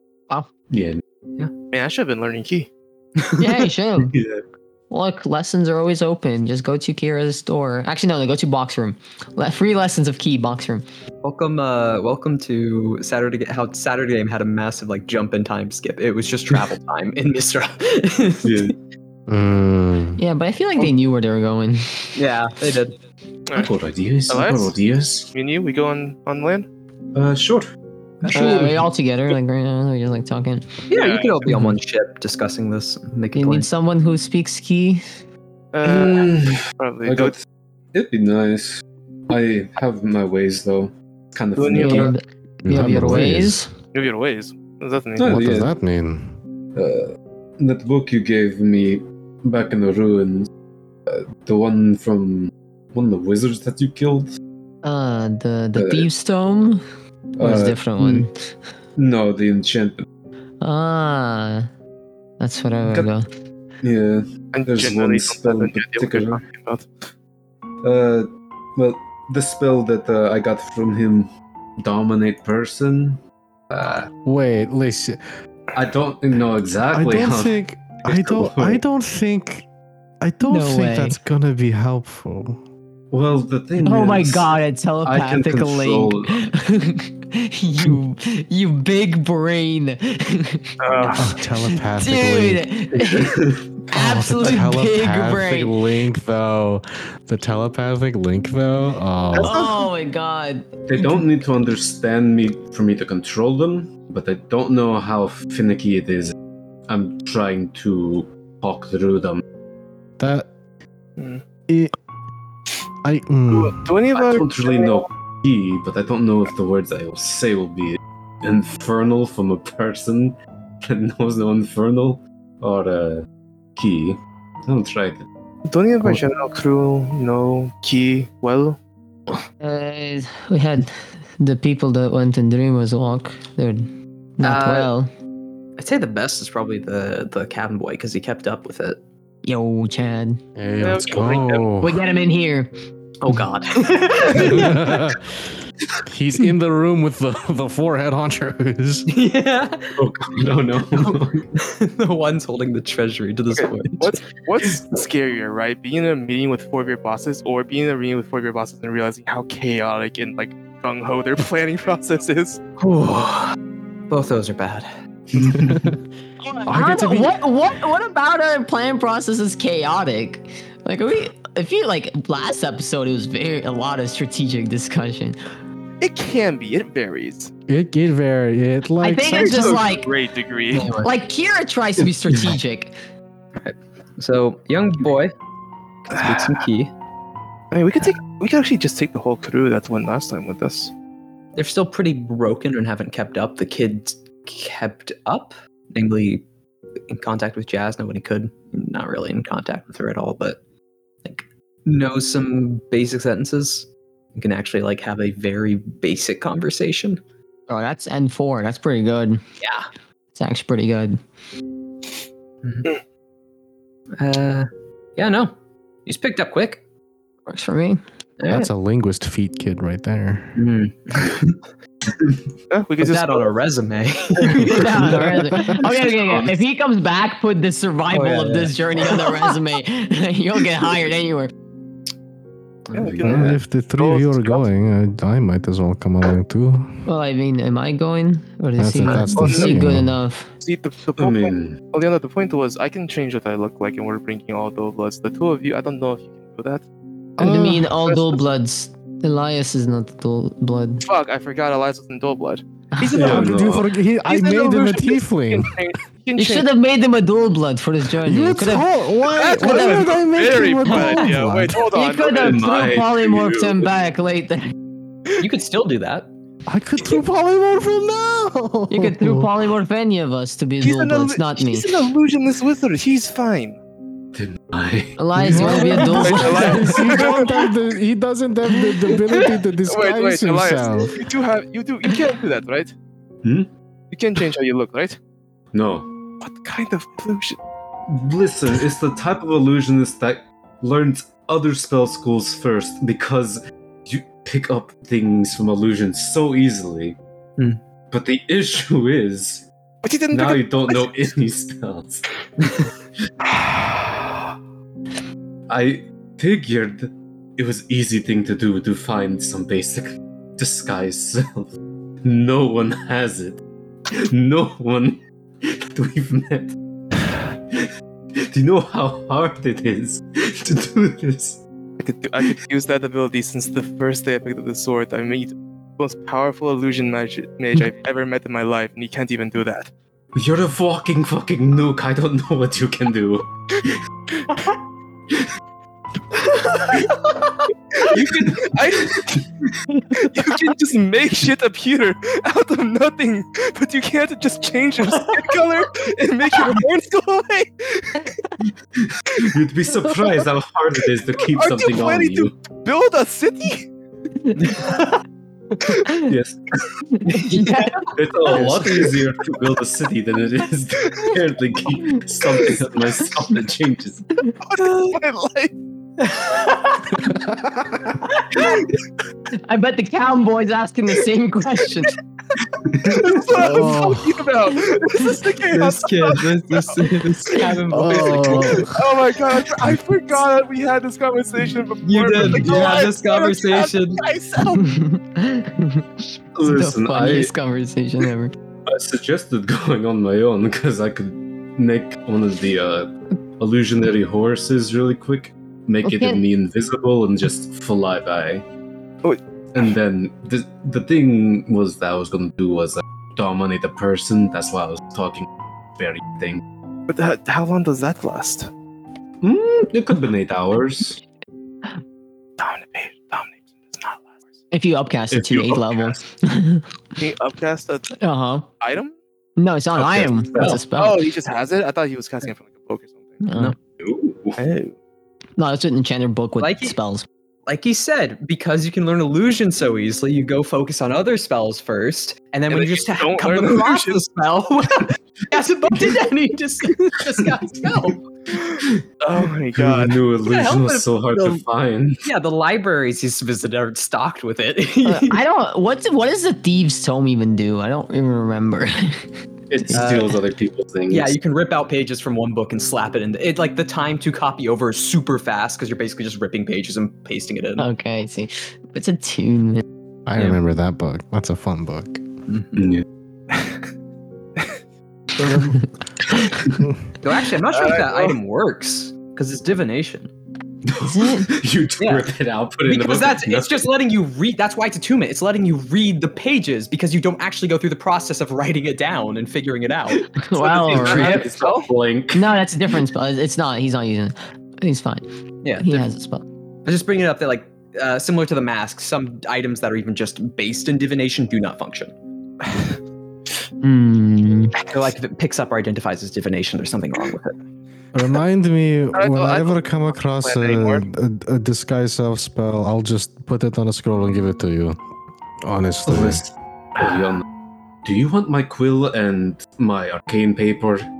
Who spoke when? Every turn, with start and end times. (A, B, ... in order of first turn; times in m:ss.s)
0:00.7-0:01.0 A
0:01.7-0:02.7 B
0:03.4-0:04.2 C
0:04.1-0:04.4 A
0:04.9-0:10.8 C
0:11.2-0:18.7 D
0:18.4-0:18.7 A
0:19.3-0:20.2 E
0:20.2-0:22.1 C
0:22.1-0:23.0 D
0:23.5-0:25.3 A
0:24.3-0:24.8 B
0:25.3-0:26.7 B
0:27.1-0:27.7 A
0:28.2-0:28.7 D
0:28.2-0:28.9 A
0:28.3-0:30.7 C
0:30.9-0:33.7 D
0:30.9-0:31.5 B
0:31.5-0:31.7 C
0:33.4-0:35.0 C
0:35.7-0:37.4 B
0:35.8-0:37.4 A
0:37.9-0:42.1 A
0:41.6-0:42.1 B
0:41.8-0:43.7 C
0:42.6-0:43.6 E
0:42.8-0:43.3 A
0:43.9-0:45.6 B
0:45.2-0:45.7 A
0:45.3-0:46.4 E
0:46.7-0:50.5 A
0:51.1-0:54.3 A
0:54.8-0:56.8 C
0:55.8-0:56.1 A
0:57.4-0:58.3 A
0:57.4-0:58.3 C
0:59.0-1:00.0 A
1:00.6-1:01.7 C
1:02.4-1:03.3 C
1:02.8-1:03.1 A
1:03.8-1:06.4 A
1:04.5-1:06.9 B
1:07.8-1:14.1 A
1:14.2-1:15.2 E
1:15.7-1:18.8 A
1:16.9-1:19.7 E
1:20.2-1:22.6 E
1:20.4-1:21.2 C
1:23.1-1:24.5 A
1:23.8-1:35.8 C
1:25.0-1:26.4 A
1:30.8-1:31.3 B
1:31.1-1:32.7 E
1:33.0-1:33.8 A
1:33.9-1:39.6 E
1:39.3-1:39.8 B
1:39.4-1:40.7 C
1:40.9-1:46.4 A
1:46.9-1:49.4 A
1:50.2-1:50.5 E
1:51.2-1:51.4 B
1:51.7-1:51.9 E
1:53.0-1:53.9 E
1:53.5-1:55.0 B
1:54.1-2:05.3 A
2:05.7-2:08.8 B
2:06.0-2:06.3 E
2:09.6-2:15.1 C
2:14.4-2:14.9 D
2:15.8-2:19.0 D
2:19.4-2:20.4 C
2:20.6-2:22.0 E
2:20.8-2:21.7 B
2:21.8-2:22.7 C
2:23.2-2:25.0 D
2:24.3-2:25.3 E
2:26.0-2:29.1 E
2:29.1-2:30.0 D
2:30.0-2:31.5 A
2:31.0-2:34.2 D
2:33.5-2:42.6 B
2:42.8-2:43.6 D
2:44.1-2:44.9 D
2:45.3-2:45.9 A
2:45.6-2:46.0 E
2:46.4-2:55.4 C
2:46.6-2:47.4 E
2:56.0-2:57.5 B
2:57.7-2:59.8 E
2:59.0-3:00.1 C
2:59.3-3:00.9 B
3:00.7-3:01.1 D
3:00.9-3:02.9 C
3:03.6-3:05.3 D
3:06.0-3:06.9 D
3:06.1-3:06.6 B
3:07.7-3:10.9 B
3:11.6-3:16.4 D
3:17.1-3:20.6 D
3:21.2-3:27.2 D
3:27.7-3:29.4 C
3:29.6-3:29.9 D
3:30.4-3:31.2 C
3:32.6-3:32.9 D
3:34.2-3:35.5 D
3:36.0-3:36.8 D
3:37.5-3:38.0 C
3:38.4-3:38.7 D
3:38.5-3:40.6 E
3:40.6-3:41.6 D
3:42.7-3:43.5 B
3:43.0-3:45.3 D
3:44.4-3:51.5 C
3:45.0-3:46.5 A
3:48.1-3:49.5 D
3:52.9-3:53.6 A
3:52.9-3:54.6 B
3:53.2-3:57.0 E
3:57.0-4:00.5 C
3:58.8-4:00.2 E
3:59.4-3:59.8 B
4:00.6-4:06.8 B
4:01.2-4:01.8 A
4:07.4-4:08.0 E
4:07.4-4:11.0 C
4:08.0-4:08.4 B
4:11.0-4:13.6 B
4:12.9-4:13.4 C
4:13.1-4:13.9 A
4:13.2-4:15.8 E
4:14.2-4:16.7 B
4:16.4-4:20.1 C
4:18.2-4:21.9 E
4:19.4-4:22.6 B
4:20.9-4:21.3 C
4:21.9-4:24.7 C
4:22.3-4:23.9 A
4:25.4-4:26.3 D
4:26.7-4:29.5 E
4:28.9-4:32.0 C
4:30.8-4:33.8 B
4:34.3-4:36.1 A
4:35.2-4:37.3 C
4:35.4-4:41.2 E
4:35.7-4:37.6 B
4:38.8-4:39.4 C
4:39.9-4:42.9 B
4:43.4-4:43.7 A
4:44.1-4:45.2 B
4:45.7-4:46.1 A
4:46.4-4:47.6 B
4:48.1-4:57.2 A
4:58.1-4:59.7 A
5:00.0-5:01.3 B
5:00.3-5:02.9 A
5:05.7-5:11.7 A
5:12.2-5:16.7 A
5:17.3-5:21.6 A
5:22.0-5:29.9 B
5:30.4-5:34.0 A
5:38.0-5:39.3 B
5:38.1-5:39.4 A
5:40.2-5:48.3 B
5:49.0-5:52.5 A
5:51.5-5:53.9 B
5:54.6-5:55.0 D
5:55.9-5:56.1 C
5:56.3-5:56.6 A
5:57.2-5:58.6 C
5:57.3-5:58.0 D
5:58.0-6:04.2 A
6:04.6-6:05.7 B
6:06.3-6:06.9 D
6:07.3-6:08.0 E
6:09.7-6:12.2 C
6:12.8-6:13.4 A
6:13.0-6:17.7 B
6:13.6-6:14.3 E
6:13.6-6:14.0 C
6:15.7-6:18.9 D
6:17.9-6:19.0 E
6:18.1-6:18.9 C
6:18.6-6:24.8 B
6:22.0-6:24.2 D
6:24.7-6:28.6 C
6:26.6-6:27.5 A
6:28.9-6:38.7 A
6:36.0-6:36.4 C
6:39.7-6:46.6 A
6:47.1-6:48.7 B
6:49.4-6:51.2 A
6:52.6-6:54.3 B
6:54.7-6:56.8 C
6:55.3-6:56.2 A
6:57.2-6:58.2 B
6:58.2-6:58.7 C
6:58.8-6:59.1 B
6:59.6-7:01.2 C
7:00.0-7:00.8 A
7:01.0-7:03.4 B
7:03.4-7:03.8 C
7:04.0-7:04.6 A
7:04.6-7:04.9 B
7:05.6-7:07.3 C
7:06.6-7:07.0 D
7:07.7-7:18.2 D
7:12.7-7:14.2 B
7:18.6-7:20.2 B
7:18.8-7:22.3 A
7:20.4-7:21.6 D
7:22.2-7:25.4 D
7:25.0-7:29.2 C
7:29.7-7:31.4 A
7:29.9-7:30.1 C
7:29.9-7:30.4 D
7:31.1-7:37.9 D
7:37.8-7:39.8 C
7:40.3-7:42.2 E
7:42.5-7:42.9 D
7:42.8-7:43.0 A
7:45.4-7:45.8 A
7:46.4-7:46.8 A
7:47.2-7:50.3 D
7:47.7-7:48.4 B
7:50.8-7:53.8 A
7:51.0-7:51.5 C
7:52.0-7:52.3 D
7:52.9-8:01.9 D
8:00.4-8:01.4 C
8:00.7-8:02.6 A
8:02.3-8:05.2 C
8:05.6-8:06.0 D
8:05.8-8:06.4 C
8:06.8-8:12.1 D
8:13.8-8:14.7 C
8:14.7-8:17.6 D
8:18.1-8:25.0 E
8:19.1-8:21.0 B
8:25.6-8:26.4 E
8:26.1-8:27.4 A
8:28.0-8:31.1 A